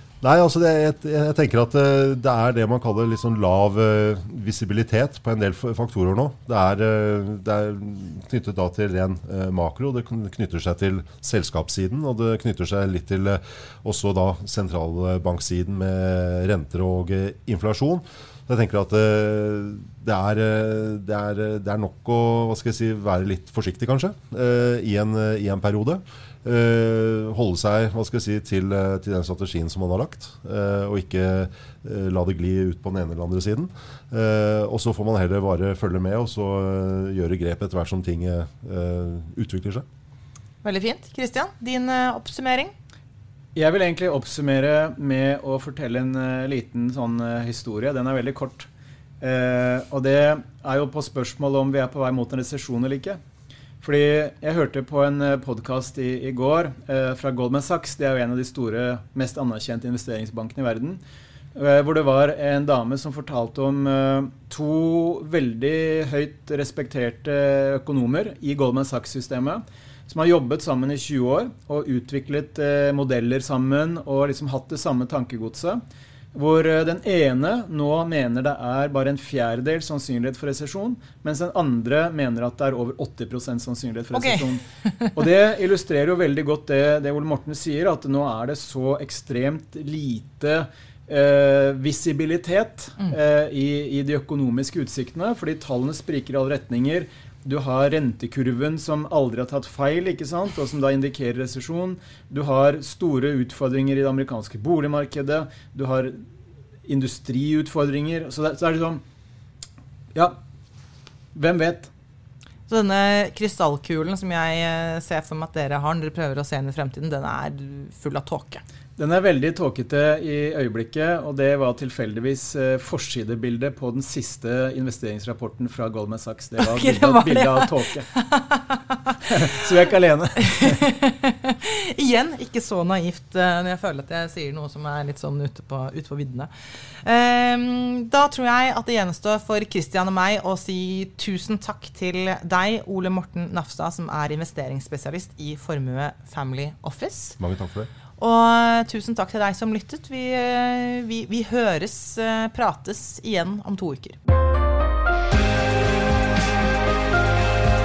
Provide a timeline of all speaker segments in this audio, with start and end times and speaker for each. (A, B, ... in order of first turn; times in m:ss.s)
0:00.2-0:39.8 A
0:40.6-0:42.7 B
0:43.6-0:48.7 C
0:49.2-0:53.2 C
0:53.8-1:01.0 C
1:01.6-1:15.8 C
1:16.3-1:46.2 C
1:24.1-1:25.1 B
1:46.9-1:49.0 C
1:51.4-1:51.9 C
1:52.7-1:58.6 B
1:59.0-2:08.1 C
2:06.6-2:09.2 B
2:09.2-2:10.8 C
2:10.4-2:16.5 B
2:17.0-2:27.4 B
2:27.4-2:27.9 A
2:28.2-2:34.2 B